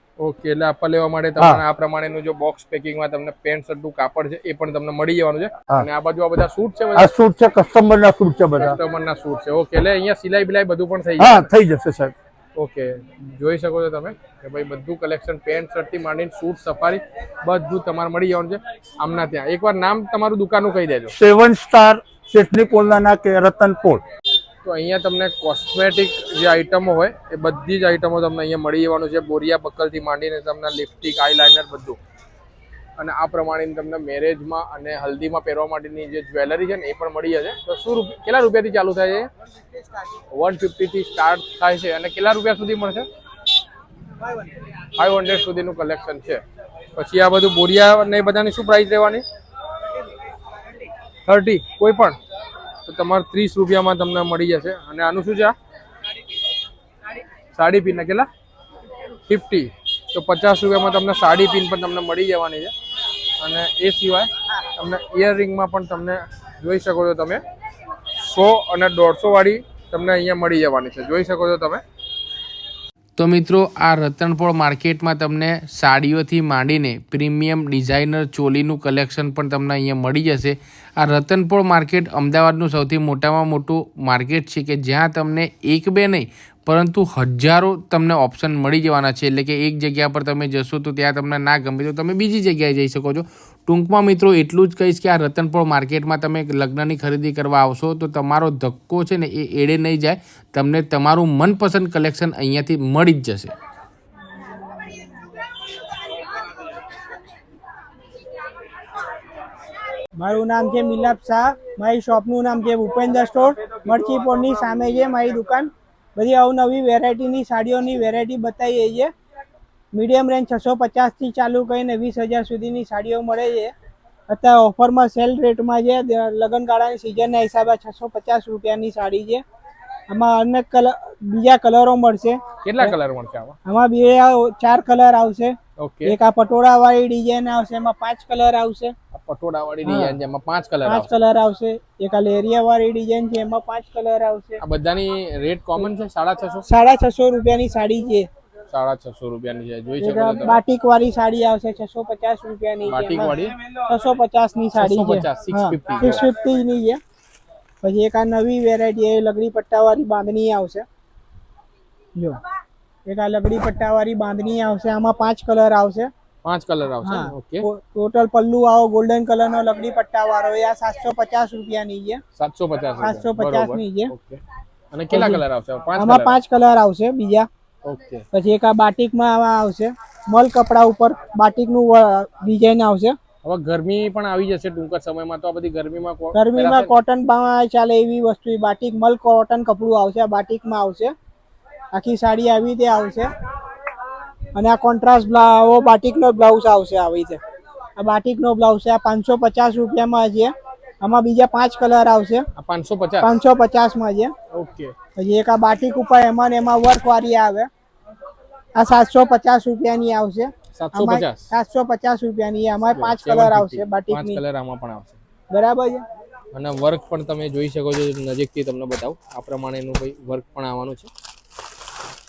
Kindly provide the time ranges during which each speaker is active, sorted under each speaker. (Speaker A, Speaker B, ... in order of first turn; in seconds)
Speaker A: 0.2-7.1, 8.6-11.5, 12.6-21.1, 24.6-32.0, 33.0-39.3, 40.3-43.1, 45.0-46.4, 47.0-49.2, 51.3-52.2, 52.9-55.5, 57.5-58.3, 59.3-62.7, 63.4-67.4, 68.2-71.8, 132.6-133.6, 135.8-136.2, 139.1-141.1, 144.6-146.7, 148.7-150.6, 152.9-153.5, 154.8-156.2, 166.4-167.7, 172.4-174.4, 174.9-176.4, 177.8-178.3, 183.4-186.9, 202.6-203.3, 204.5-204.9, 210.8-211.5, 212.9-215.2, 216.5-221.1
Speaker B: 1.4-1.6, 7.0-8.8, 11.2-12.1, 21.2-24.0
Speaker C: 73.2-103.5
Speaker D: 110.2-119.1, 119.9-123.7, 124.3-129.4, 130.1-132.9, 133.7-138.9, 139.9-140.2, 140.8-144.6, 146.7-148.3, 150.0-157.0, 157.8-160.9, 163.1-166.1, 167.0-172.2, 173.0-174.1, 175.1-175.4, 176.0-177.5, 178.3-183.2, 186.3-191.1, 191.9-193.3, 194.5-197.4, 198.0-202.5, 203.2-204.3, 205.2-207.7, 208.8-214.4, 215.5-216.0